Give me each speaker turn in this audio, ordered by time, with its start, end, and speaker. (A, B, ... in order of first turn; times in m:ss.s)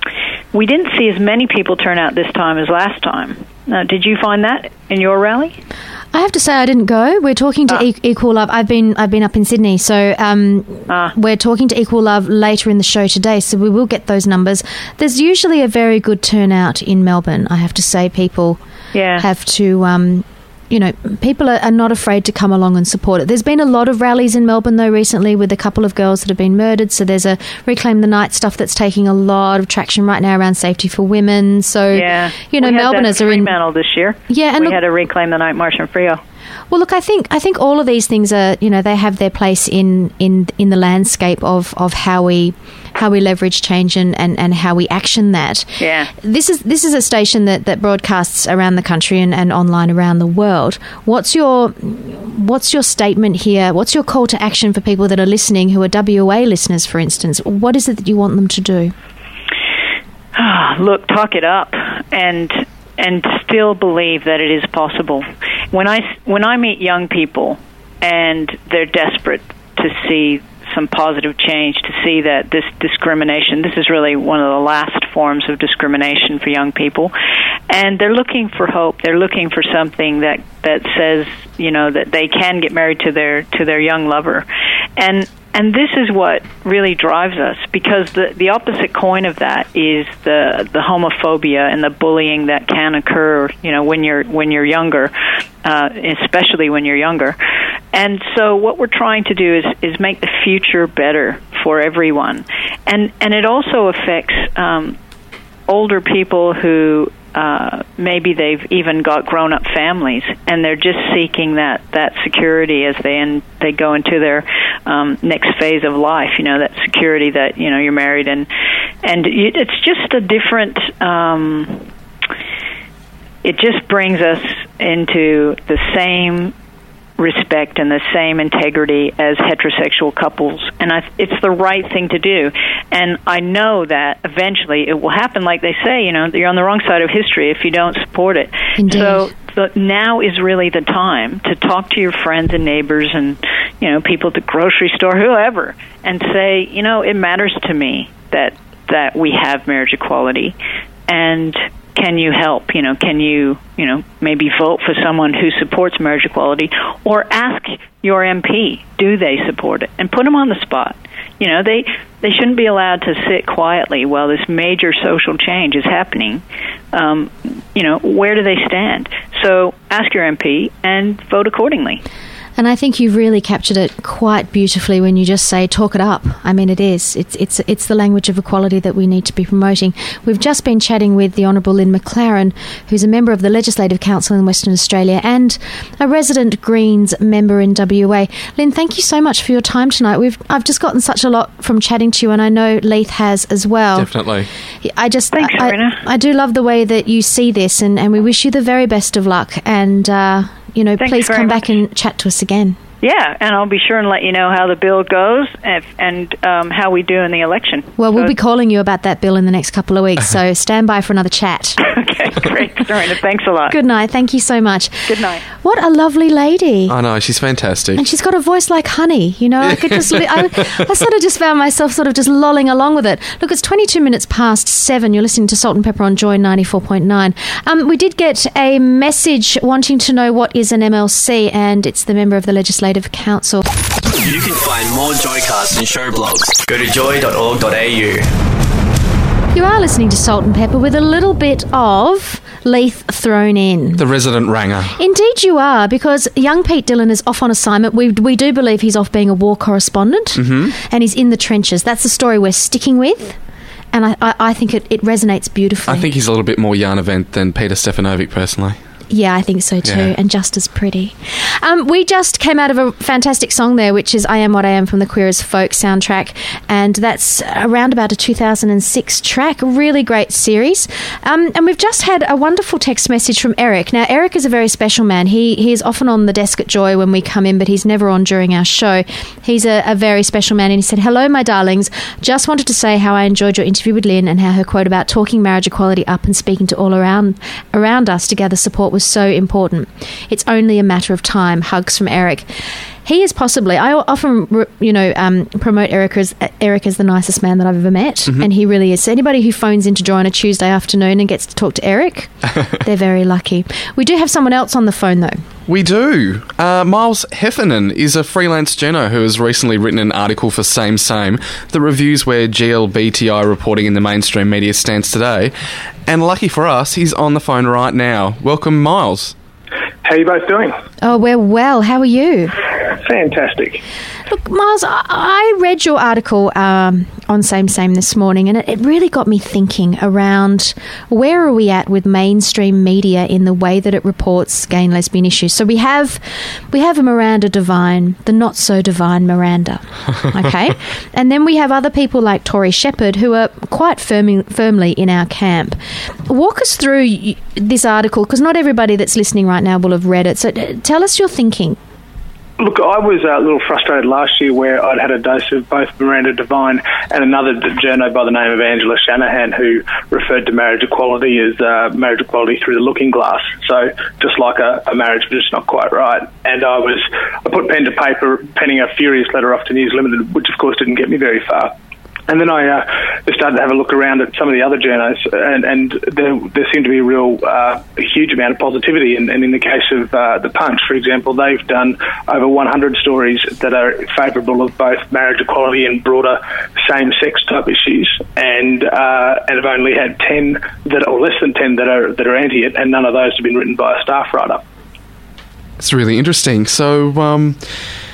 0:00.5-0:05.6 A
0:06.1-0:18.6 B
0:10.9-0:11.1 A
0:18.9-0:19.2 A
0:19.2-0:33.5 B
0:31.9-0:36.2 A
0:34.3-0:34.8 B
0:36.7-0:58.9 B
0:45.8-0:46.1 A
1:00.3-1:17.1 A
1:17.7-1:24.4 A
1:25.0-1:35.1 A
1:35.6-1:37.4 A
1:37.9-1:45.0 A
1:45.7-1:58.5 A
1:59.0-2:01.9 A
2:03.4-2:06.5 A
2:07.2-2:30.5 A
2:18.8-2:19.3 B
2:31.1-2:52.0 A
2:52.6-3:14.1 B
3:14.0-3:14.5 C
3:14.8-3:22.8 B
3:15.3-3:16.0 A
3:21.0-3:21.6 A
3:23.0-3:28.3 A
3:28.0-3:31.8 B
3:31.8-3:33.8 A
3:33.7-3:36.9 B
3:35.1-3:35.4 A
3:36.9-3:38.0 C
3:38.0-3:53.6 B
3:54.2-3:58.3 D
3:59.5-4:04.0 B
4:04.0-4:05.0 C
4:05.0-4:13.4 B
4:10.4-4:10.7 C
4:13.9-4:16.1 B
4:15.9-4:18.8 C
4:19.1-4:52.5 B
4:19.8-4:20.1 C
4:53.0-5:05.4 B
5:05.7-5:15.5 C
5:16.1-5:19.3 C
5:20.0-5:20.7 E
5:21.0-5:22.6 B
5:22.9-5:23.8 E
5:24.3-5:51.8 B
5:52.6-6:11.7 E
6:12.3-6:34.6 E
6:35.8-6:37.6 C